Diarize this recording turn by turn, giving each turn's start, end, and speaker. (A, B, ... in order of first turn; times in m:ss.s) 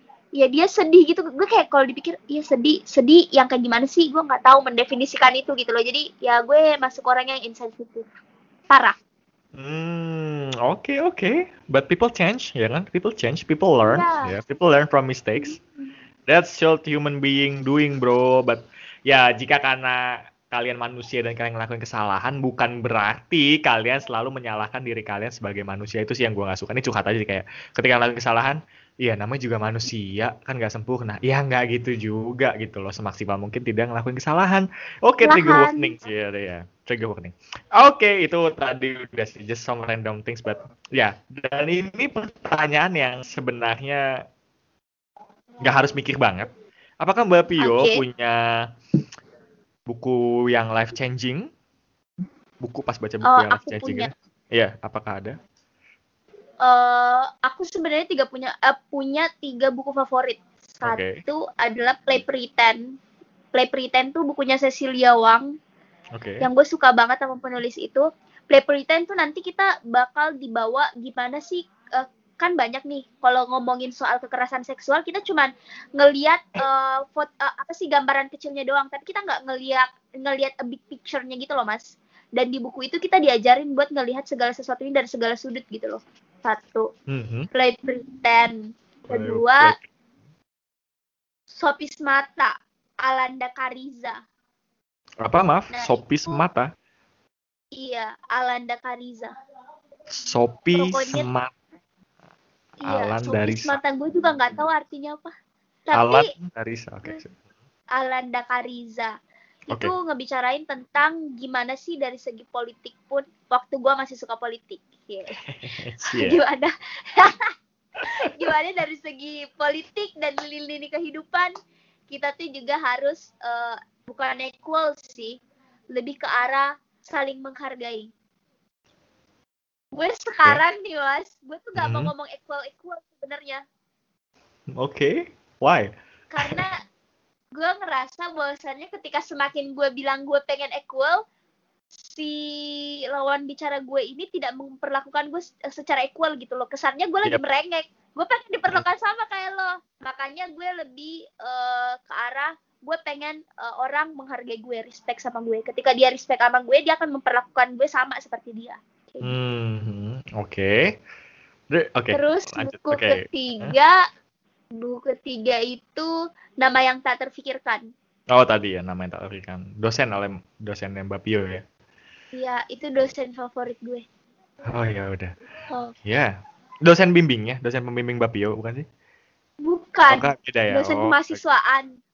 0:00.4-0:08.0 A
0:08.7-0:08.9 A
0:09.6-0:15.6 B
0:13.9-0:14.3 A
0:16.3-0:44.0 B
0:35.2-0:36.0 A
0:45.6-0:46.5 B
0:47.0-0:48.4 B
0:47.6-0:48.0 A
0:49.9-0:51.5 B
0:52.6-0:55.4 B
0:53.2-0:54.1 A
0:56.6-1:02.8 A
1:00.8-1:01.2 B
1:03.5-1:05.5 A
1:06.1-1:06.5 B
1:06.4-1:26.9 A
1:27.1-1:27.5 B
1:27.5-1:29.7 A
1:29.1-1:29.9 B
1:31.5-1:32.5 A
1:33.0-1:34.2 A
1:35.2-1:36.7 B
1:35.7-1:36.4 A
1:37.7-1:39.3 A
1:40.1-1:41.6 B
1:40.7-1:41.3 A
1:42.8-1:45.3 A
1:42.9-1:43.8 B
1:45.9-1:46.3 A
1:45.9-1:47.4 B
1:47.9-1:49.1 A
1:49.7-1:55.4 A
1:55.4-1:56.4 B
1:56.0-1:57.5 A
1:58.2-2:01.5 A
2:02.1-2:05.4 A
2:05.9-2:08.1 A
2:09.9-2:13.6 A
2:11.8-2:12.1 B
2:14.7-2:16.6 B
2:16.3-2:16.8 A
2:17.5-2:21.2 A
2:22.0-2:39.3 A
2:39.2-2:40.9 B
2:41.7-2:43.8 B
2:42.1-2:44.0 A
2:44.8-2:47.8 A
2:48.3-2:51.6 B
2:52.3-2:54.0 A
2:54.6-2:55.3 B
2:56.0-2:58.8 B
2:59.6-3:01.9 A
3:00.1-3:01.4 B